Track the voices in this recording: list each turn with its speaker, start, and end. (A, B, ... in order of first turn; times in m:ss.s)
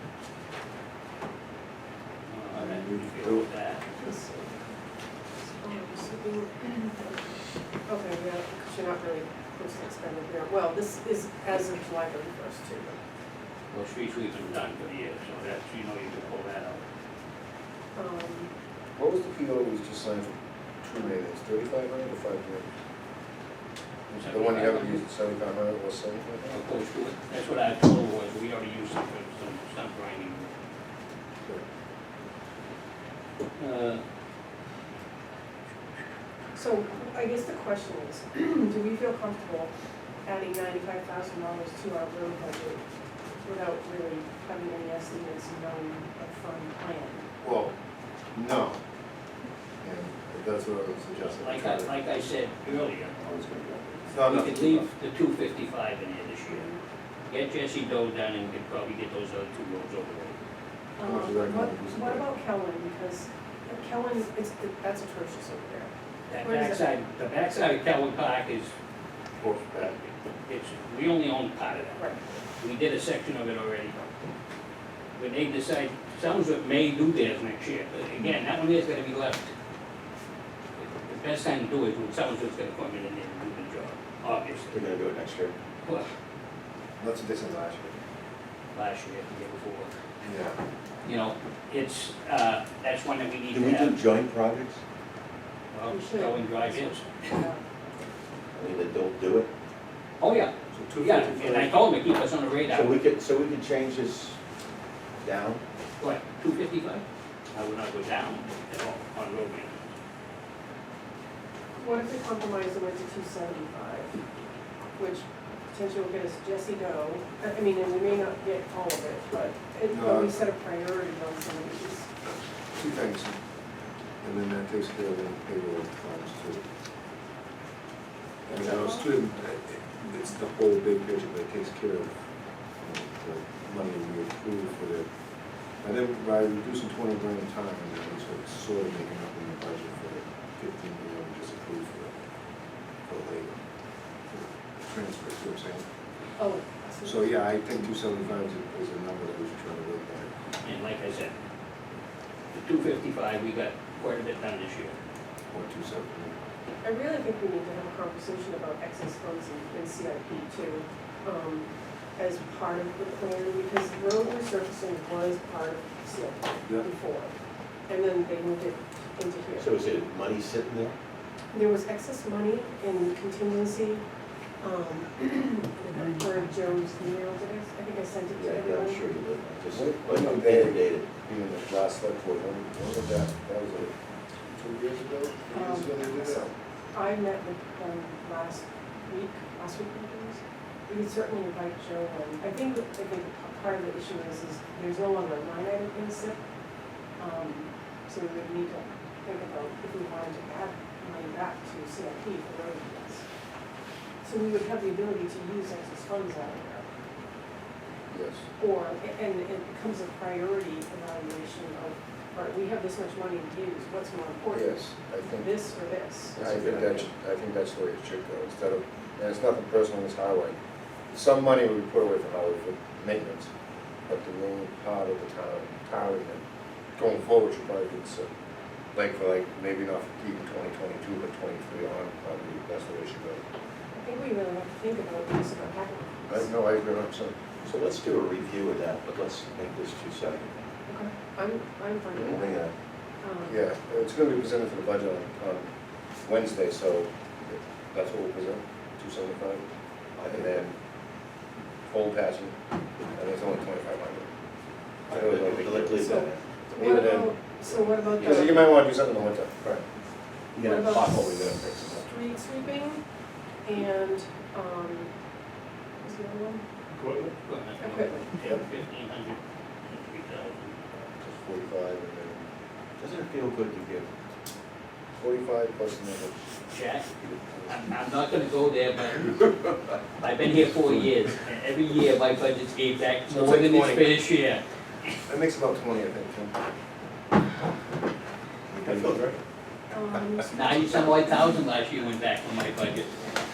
0:02.3-0:03.8 A
0:02.5-0:03.4 B
0:03.9-0:04.6 C
0:05.6-0:07.2 C
0:07.8-0:13.0 C
0:13.7-0:16.8 A
0:17.9-0:18.5 C
0:19.0-0:22.7 B
0:24.1-0:26.6 B
0:24.1-0:25.0 A
0:26.4-0:30.5 A
0:33.6-0:34.0 A
0:36.5-0:39.7 C
0:40.2-0:42.8 C
0:43.4-0:47.3 C
0:47.4-0:47.7 B
0:48.3-0:48.8 B
0:49.8-0:51.9 B
0:51.4-0:53.1 A
0:53.2-0:54.9 B
0:54.2-0:56.7 A
0:56.5-0:56.8 C
0:57.3-1:00.4 A
1:01.0-1:06.9 C
1:01.0-1:02.3 B
1:06.3-1:08.7 A
1:09.4-1:14.0 A
1:15.2-1:19.5 A
1:20.8-1:24.8 A
1:24.7-1:25.5 D
1:25.8-1:26.1 A
1:27.0-1:28.0 B
1:28.7-1:29.9 A
1:30.2-1:30.6 B
1:31.0-1:34.0 A
1:33.5-1:34.8 D
1:35.7-1:37.3 A
1:35.9-1:37.6 C
1:38.5-1:39.5 D
1:40.2-1:43.0 A
1:40.7-1:41.7 B
1:42.7-1:44.4 D
1:45.2-1:45.6 D
1:46.0-1:49.9 A
1:51.8-1:54.1 C
1:55.0-2:02.1 C
1:59.9-2:00.3 B
2:02.7-2:03.4 B
2:04.2-2:06.6 B
2:08.5-2:12.1 B
2:08.5-2:09.1 C
2:12.8-2:15.1 B
2:15.8-2:22.1 B
2:23.1-2:23.6 B
2:24.3-2:25.8 B
2:26.4-2:27.4 C
2:27.0-2:30.3 B
2:30.6-2:31.4 A
2:32.5-2:35.0 A
2:35.5-2:36.4 B
2:36.8-2:47.3 C
2:47.9-2:49.7 C
2:49.6-2:51.0 D
2:51.5-2:54.0 C
2:54.6-2:59.1 C
2:58.3-3:01.1 D
2:59.7-3:03.9 B
3:04.5-3:06.5 B
3:05.5-3:16.4 C
3:17.2-3:23.2 C
3:24.2-3:26.8 C
3:28.1-3:28.4 B
3:28.6-3:36.4 C
3:34.5-3:35.5 B
3:36.3-3:40.6 B
3:36.4-3:37.1 D
3:41.1-3:43.5 B
3:44.1-3:46.4 B
3:47.0-3:48.3 B
3:48.9-3:53.4 B
3:54.0-3:56.4 C
3:56.3-3:57.3 B
3:57.6-4:00.7 D
4:00.9-4:02.6 C
4:02.1-4:02.7 D
4:02.1-4:02.4 B
4:03.2-4:03.6 C
4:03.4-4:05.7 B
4:06.2-4:09.7 B
4:10.2-4:10.6 D
4:10.2-4:10.7 B
4:11.9-4:12.6 B
4:13.1-4:14.3 B
4:15.1-4:16.0 B
4:15.1-4:16.4 D
4:16.0-4:18.8 C
4:16.7-4:19.7 B
4:18.2-4:18.6 D
4:20.5-4:22.1 D
4:20.6-4:23.0 C
4:23.6-4:25.1 C
4:26.0-4:26.6 C
4:27.3-4:30.8 A
4:27.8-4:28.3 C
4:31.2-4:32.4 B
4:33.0-4:34.1 D
4:35.2-4:36.3 B
4:36.7-4:37.1 A
4:37.2-4:37.9 B
4:37.7-4:39.5 A
4:40.2-4:44.6 A
4:43.3-4:44.1 B
4:45.2-4:46.6 B
4:48.7-4:49.3 B
4:48.8-4:49.4 D
4:49.9-4:51.3 C
4:50.5-4:53.1 A